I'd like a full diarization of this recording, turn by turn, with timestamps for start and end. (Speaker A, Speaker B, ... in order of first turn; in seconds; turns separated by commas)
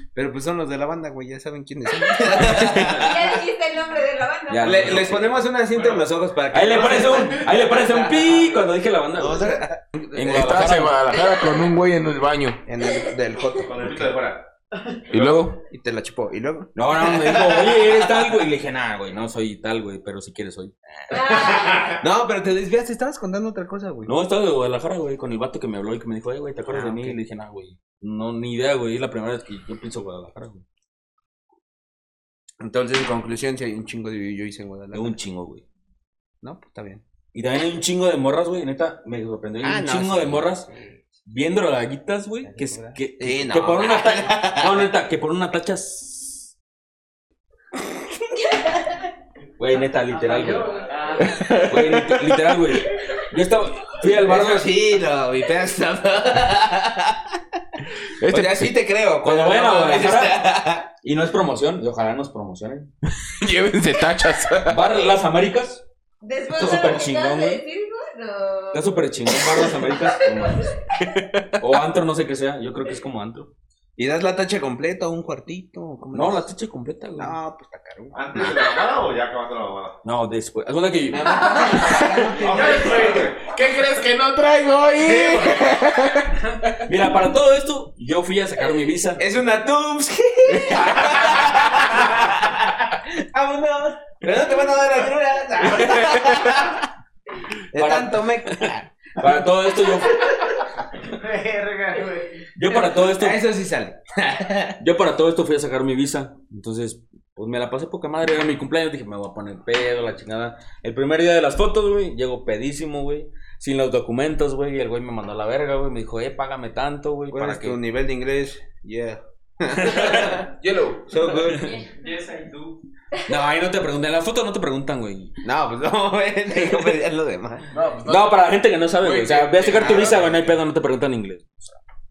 Speaker A: 0.1-3.2, Speaker B: 2.4-3.0, Speaker C: 2.6-5.0, Speaker B: 4.5-5.3, Speaker A: 4.6-8.4, Speaker D: 5.8-6.0, Speaker B: 6.5-11.0, Speaker A: 9.2-10.8, Speaker E: 10.2-12.6, Speaker A: 12.7-14.1, Speaker D: 13.5-14.4, Speaker E: 15.1-15.6, Speaker D: 15.1-15.5, Speaker A: 15.6-17.9, Speaker B: 16.7-21.6, Speaker C: 21.1-21.9, Speaker A: 22.0-24.1, Speaker B: 24.1-30.6, Speaker A: 26.7-27.2, Speaker A: 32.6-35.2, Speaker B: 34.9-35.6, Speaker A: 36.4-37.0, Speaker B: 37.3-40.7, Speaker A: 39.6-41.0, Speaker B: 41.2-46.5, Speaker A: 42.4-44.9, Speaker B: 49.6-54.7, Speaker F: 50.1-51.5, Speaker E: 51.3-52.1, Speaker A: 54.0-57.4, Speaker E: 58.2-58.7, Speaker A: 58.2-60.9, Speaker B: 59.2-60.5, Speaker B: 61.0-62.9, Speaker E: 63.3-65.1, Speaker B: 64.7-65.8, Speaker C: 66.2-70.7, Speaker B: 66.5-67.6, Speaker B: 68.7-70.7, Speaker E: 71.0-71.6, Speaker B: 71.6-73.5, Speaker A: 74.0-76.5, Speaker B: 76.1-77.4, Speaker A: 77.2-78.5, Speaker D: 78.1-80.0, Speaker B: 80.0-81.7, Speaker A: 81.1-83.3, Speaker E: 81.8-86.8, Speaker D: 82.4-83.4, Speaker A: 85.0-86.2, Speaker B: 86.8-89.3, Speaker A: 89.2-96.9, Speaker E: 90.6-91.5, Speaker A: 97.7-99.4, Speaker B: 97.7-100.6, Speaker F: 101.0-102.4, Speaker B: 102.5-103.4, Speaker A: 102.7-104.8, Speaker B: 104.8-117.8, Speaker A: 117.3-120.5, Speaker B: 119.8-120.4, Speaker E: 120.4-121.3, Speaker A: 121.1-121.8, Speaker B: 121.4-125.3, Speaker A: 125.4-127.7, Speaker B: 126.5-126.9, Speaker E: 127.7-128.5, Speaker B: 128.1-131.8, Speaker E: 129.0-130.5, Speaker A: 129.6-130.3